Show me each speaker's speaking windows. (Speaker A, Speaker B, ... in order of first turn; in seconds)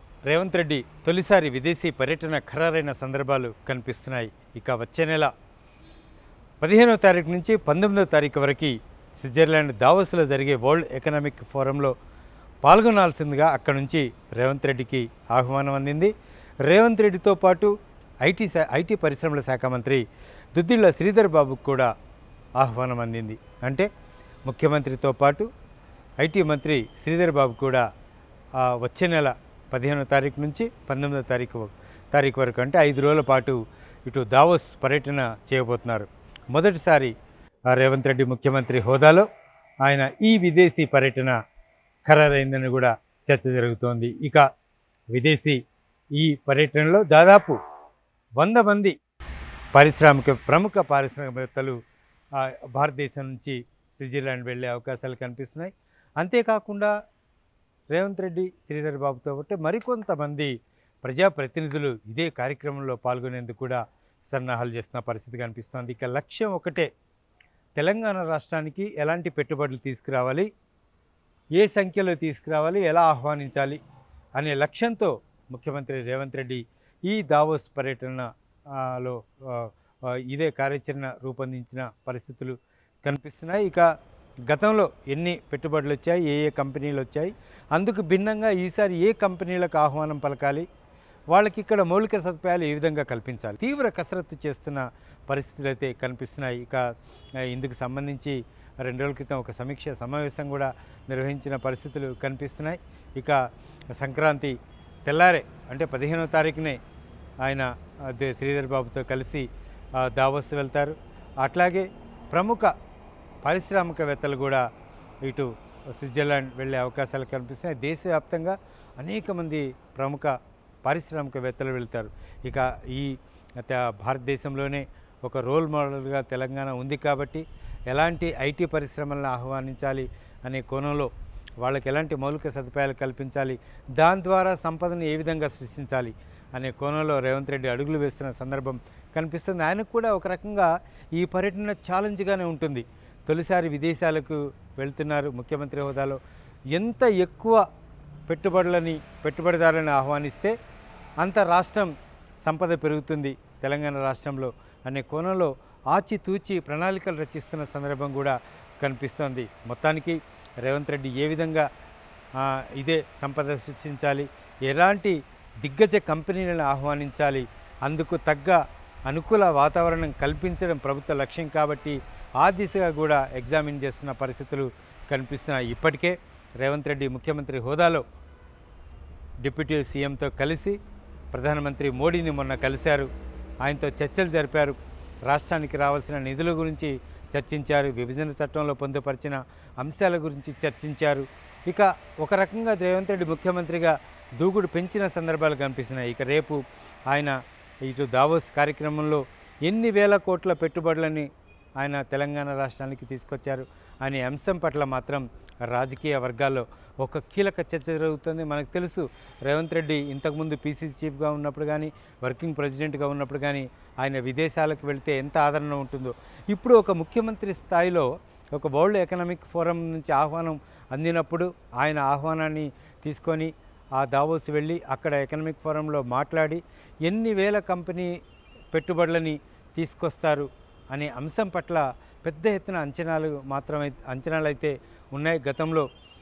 Speaker A: 0.3-5.3, 6.6-11.9, 12.6-16.1, 16.7-17.7, 18.2-20.0, 20.6-21.9, 22.6-23.9, 24.5-25.5, 26.2-27.8, 28.6-37.1, 37.7-39.3, 39.8-41.4, 42.1-44.5, 45.1-45.6, 46.2-47.6, 48.4-49.0, 49.7-51.8, 52.4-56.9, 57.9-66.9, 67.8-70.5, 71.6-73.8, 74.4-83.8, 84.5-90.7, 91.3-96.8, 97.4-103.4, 104.0-104.5, 105.1-106.8, 107.4-109.5, 110.0-112.7, 113.5-114.6, 115.3-131.1, 131.6-146.2, 146.7-147.6, 148.3-150.5, 151.2-151.9, 152.4-161.7, 162.4-178.0, 179.4-180.8, 181.3-183.1, 183.6-201.3, 201.8-228.1, 228.7-235.9